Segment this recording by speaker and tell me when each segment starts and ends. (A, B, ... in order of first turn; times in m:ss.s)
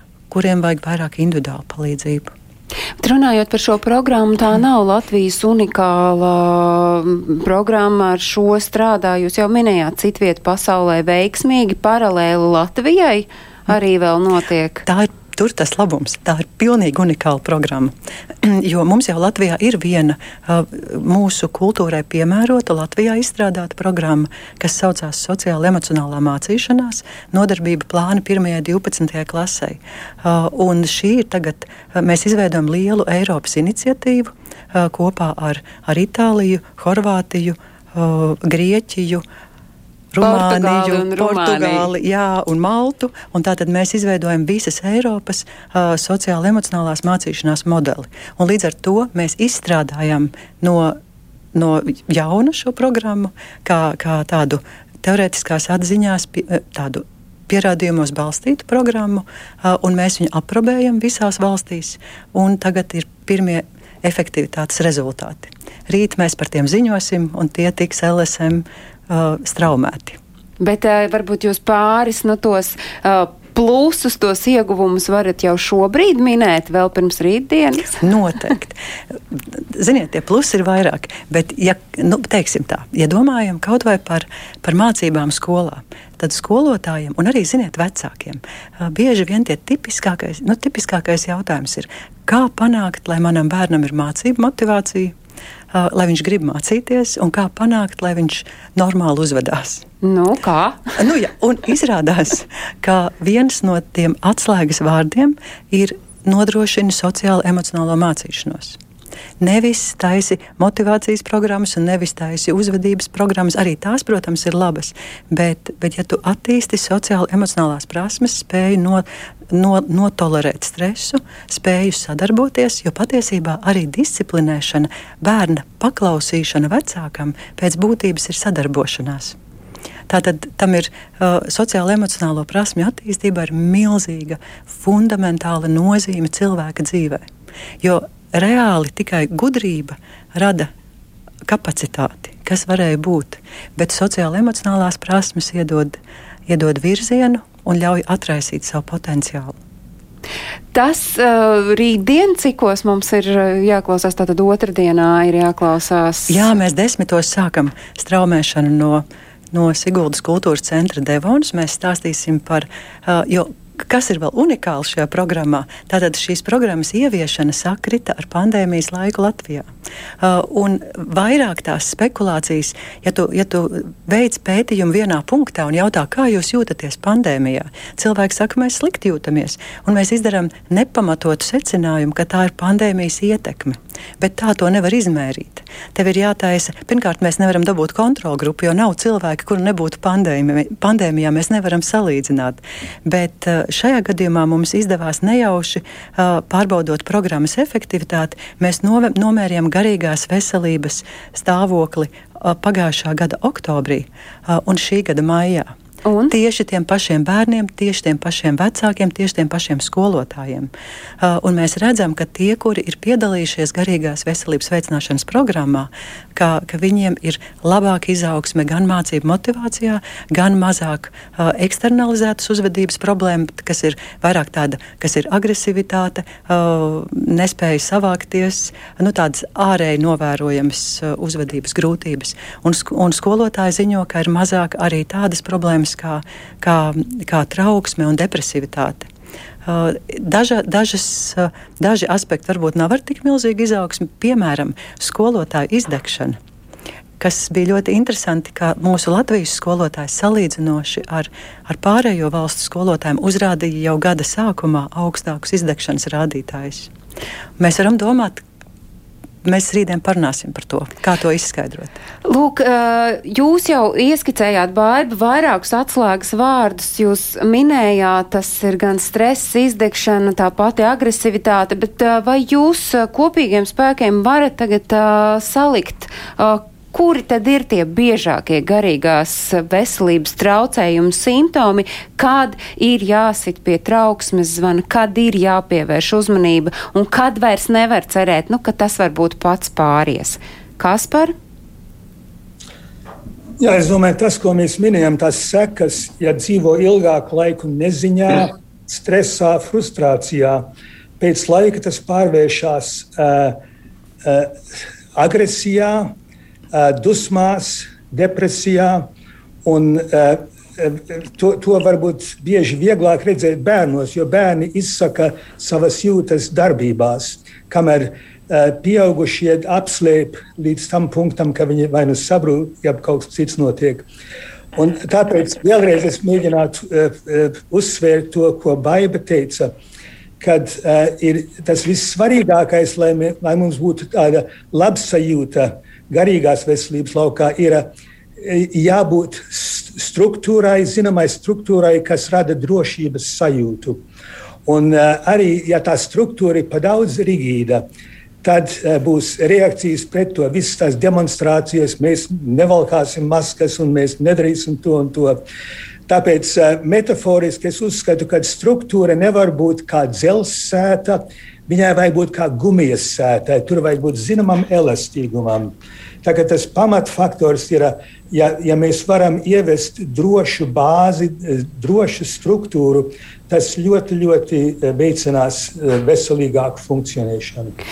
0:00.3-0:02.3 A
0:03.0-0:14.8 B
0:14.9-0:39.2 A
0:40.1-0:51.0 A
0:40.2-0:41.9 B
0:51.5-1:10.2 A
1:10.6-1:18.0 B
1:18.0-1:18.8 A
1:19.3-1:35.2 A
1:35.7-1:39.8 A
1:40.0-1:40.8 B
1:41.0-1:48.8 A
1:49.4-2:09.4 A
2:10.1-2:17.2 A
2:17.8-2:20.7 A
2:21.4-2:29.6 A
2:30.7-2:36.4 B
2:36.3-2:49.7 A
2:50.2-3:25.7 A
3:26.0-3:26.3 B
3:26.3-3:59.1 A
3:59.7-4:06.4 A
4:07.2-4:16.9 A
4:17.6-4:18.4 A
4:19.4-4:22.0 A
4:22.2-4:51.3 B
4:53.6-5:00.7 C
5:01.2-5:03.6 C
5:04.2-5:04.6 C
5:05.2-5:06.2 C
5:06.7-5:09.1 C
5:09.6-5:24.0 C
5:24.8-5:29.7 C
5:30.4-5:44.0 C
5:44.7-5:47.8 C
5:48.4-5:55.4 C
5:56.1-6:17.8 C